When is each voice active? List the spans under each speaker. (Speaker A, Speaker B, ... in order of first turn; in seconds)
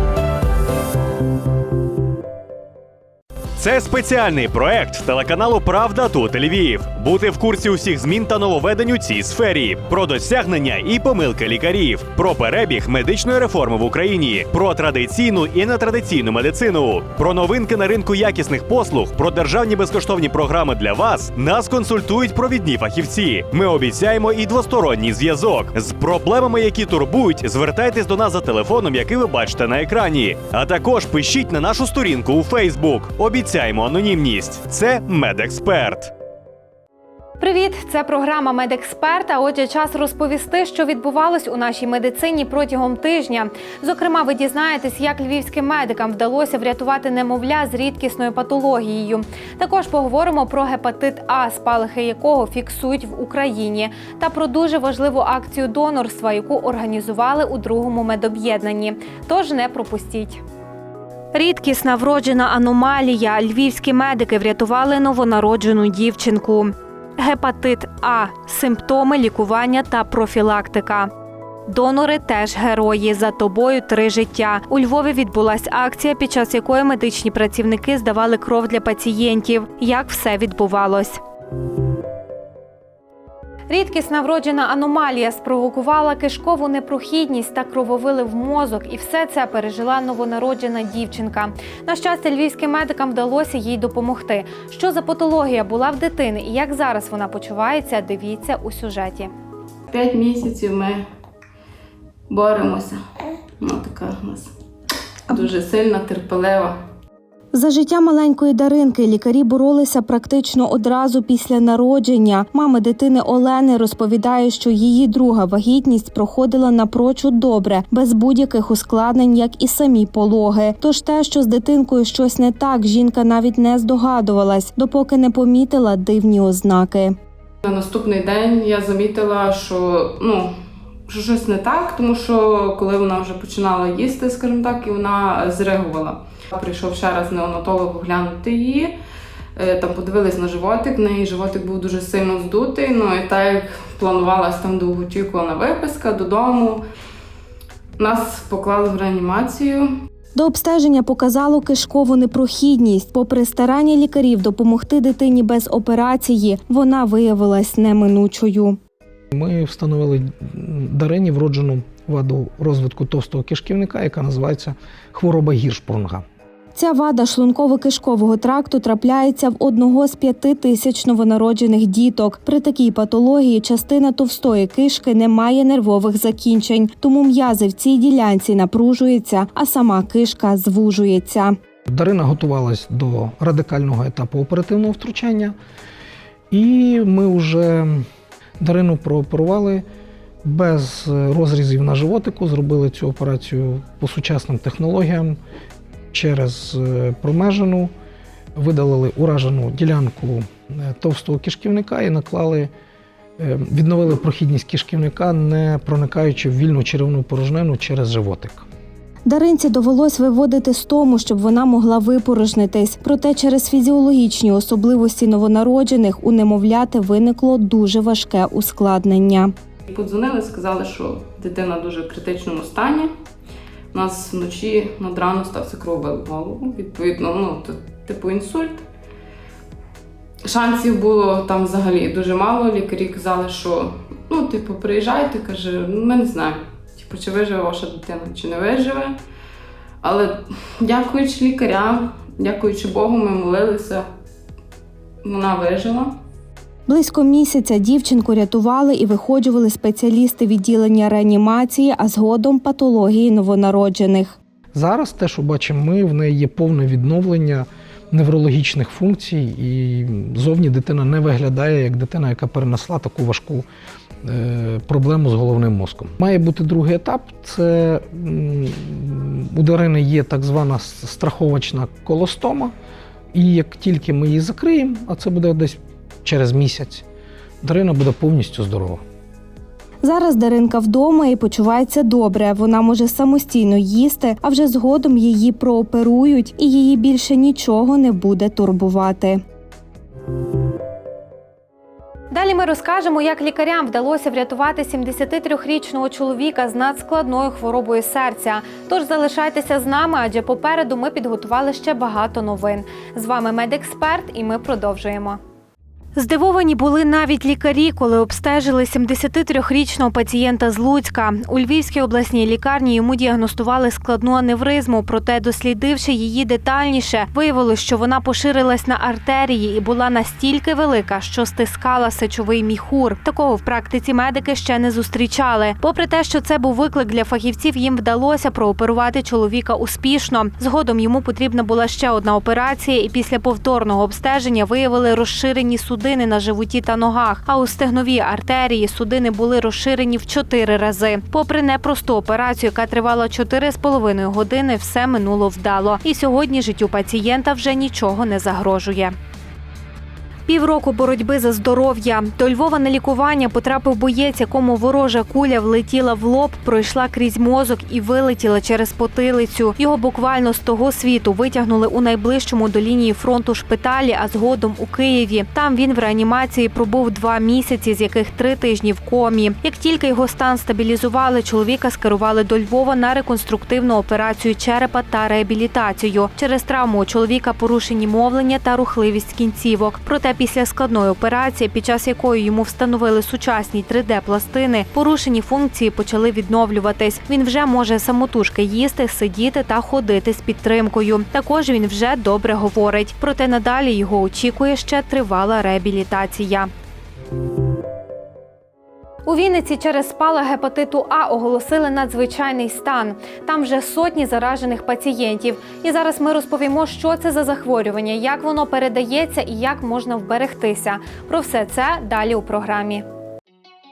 Speaker A: 3.5-36.1
Speaker B: 37.4-60.4, 61.3-71.1, 71.7-81.2, 83.7-99.3, 282.1-289.4, 292.3-305.4, 306.1-349.1, 350.5-396.7, 399.2-413.0
Speaker C: 99.9-101.0, 102.3-103.0, 103.6-104.5, 105.3-106.8, 127.6-130.5, 131.1-138.9, 139.6-146.8, 148.0-149.9, 219.9-223.1, 223.9-228.8, 230.4-239.2, 240.0-244.0, 245.2-246.1
Speaker D: 107.7-127.1, 150.3-158.8, 166.7-181.6, 209.2-219.5, 246.9-254.4, 280.0-282.2
Speaker E: 159.3-166.2, 181.9-185.5, 186.5-188.0, 188.6-189.8, 190.4-195.4, 196.1-197.9, 198.5-202.7, 203.4-208.7, 254.7-263.6, 264.2-272.7, 273.3-277.0, 277.6-279.0